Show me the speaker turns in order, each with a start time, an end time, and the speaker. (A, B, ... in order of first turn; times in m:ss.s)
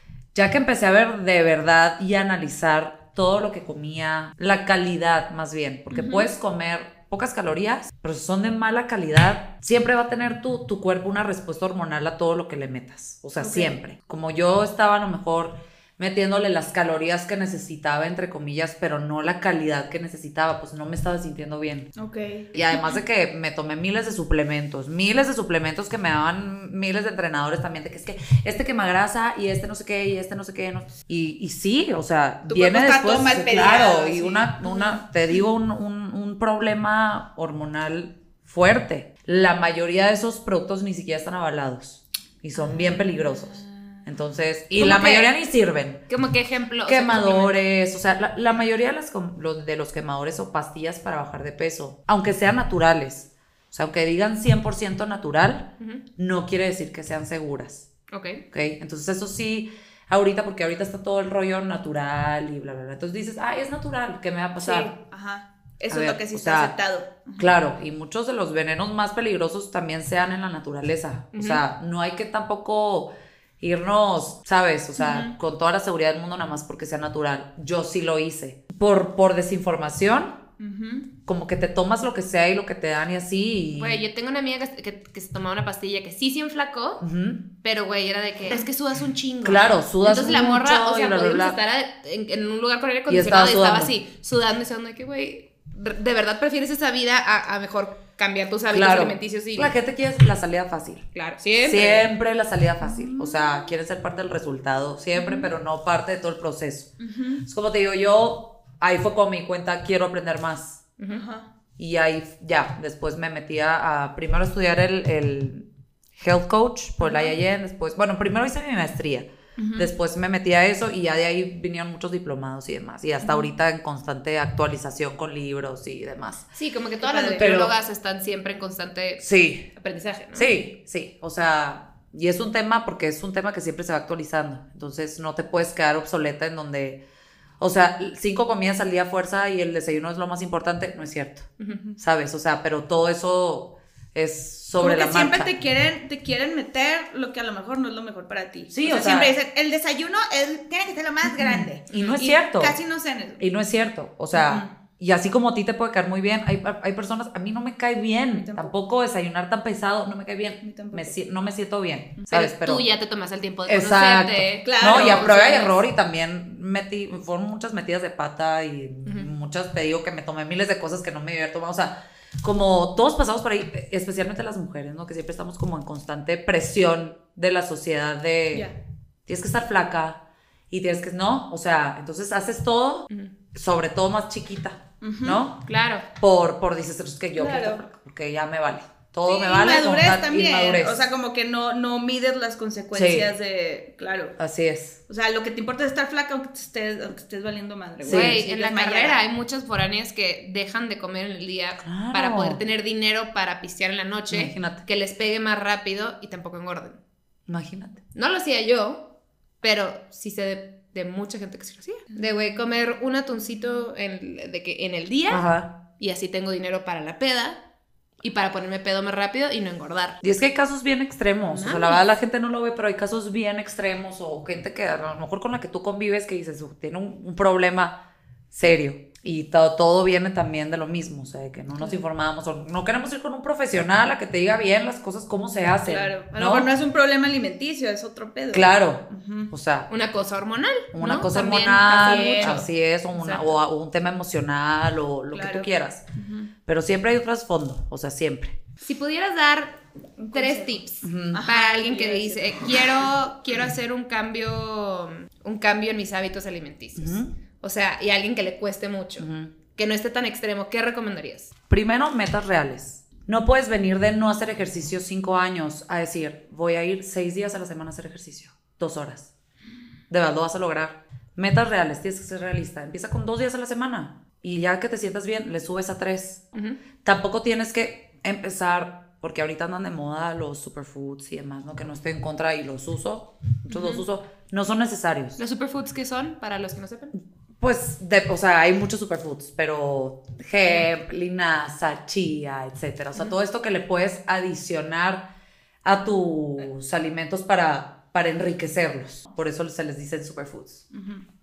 0:00.3-0:21.9 A
0:05.9-0:06.3 B
0:13.4-0:13.8 B
0:22.0-0:23.0 B
0:22.5-0:46.0 A
0:32.5-0:35.0 B
0:42.6-0:43.7 B
0:44.7-0:45.3 C
0:46.1-0:47.6 C
0:46.9-0:57.9 A
0:58.1-0:58.4 C
0:58.5-1:04.9 A
1:04.6-1:07.6 B
1:05.9-1:06.8 A
1:07.4-1:20.4 A
1:11.3-1:11.6 C
1:15.0-1:15.4 B
1:20.6-1:21.1 B
1:21.3-1:24.0 A
1:23.8-1:27.1 C
1:27.0-1:27.5 A
1:27.6-1:39.7 C
1:29.4-1:31.6 A
1:33.1-1:33.9 A
1:38.7-1:41.1 A
1:41.2-1:42.1 C
1:41.6-1:46.9 A
1:42.8-1:43.7 B
1:45.2-1:45.5 B
1:47.0-1:47.4 B
1:47.4-1:50.8 A
1:51.0-1:51.2 C
1:51.1-1:51.5 B
1:51.8-2:06.5 A
1:57.0-1:57.4 B
1:59.6-1:59.9 B
2:03.2-2:03.5 B
2:06.6-2:10.5 C
2:07.0-2:07.5 B
2:07.4-2:07.7 A
2:09.2-2:09.7 A
2:10.4-2:17.0 A
2:17.6-2:25.5 A
2:24.8-2:33.4 B
2:28.7-2:29.3 A
2:31.4-2:32.8 A
2:31.9-2:32.2 C
2:33.4-2:42.9 A
2:34.3-2:34.7 B
2:38.3-2:38.7 B
2:40.6-2:41.2 B
2:42.3-2:45.7 C
2:43.7-2:58.7 A
2:44.6-2:45.8 B
2:59.3-3:11.0 A
3:05.0-3:05.4 B
3:05.7-3:06.0 C
3:07.4-3:07.8 B
3:09.3-3:14.4 B
3:12.9-3:13.3 A
3:14.4-3:15.0 A
3:15.1-3:19.2 B
3:18.0-3:18.4 A
3:18.0-3:27.0 C
3:21.8-3:22.6 A
3:24.3-3:24.8 A
3:27.5-3:28.0 A
3:28.2-3:35.4 C
3:35.3-3:35.8 A
3:36.0-3:37.6 C
3:38.2-3:40.2 C
3:40.2-3:56.7 A
3:41.5-3:42.0 C
3:55.8-3:59.5 B
3:58.5-3:59.9 A
3:59.9-4:03.5 C
4:00.9-4:06.0 A
4:01.9-4:02.7 B
4:05.3-4:06.5 B
4:06.7-4:08.6 A
4:08.9-4:09.8 C
4:10.2-4:13.0 B
4:10.3-4:21.5 C
4:11.0-4:11.5 A
4:17.0-4:17.3 A
4:19.2-4:19.5 A
4:21.7-4:29.3 A
4:30.1-4:36.5 A
4:37.0-4:45.4 A
4:43.7-4:44.0 C
4:45.4-4:47.2 C
4:47.6-4:55.3 A
4:55.8-5:00.9 A
5:00.9-5:01.2 B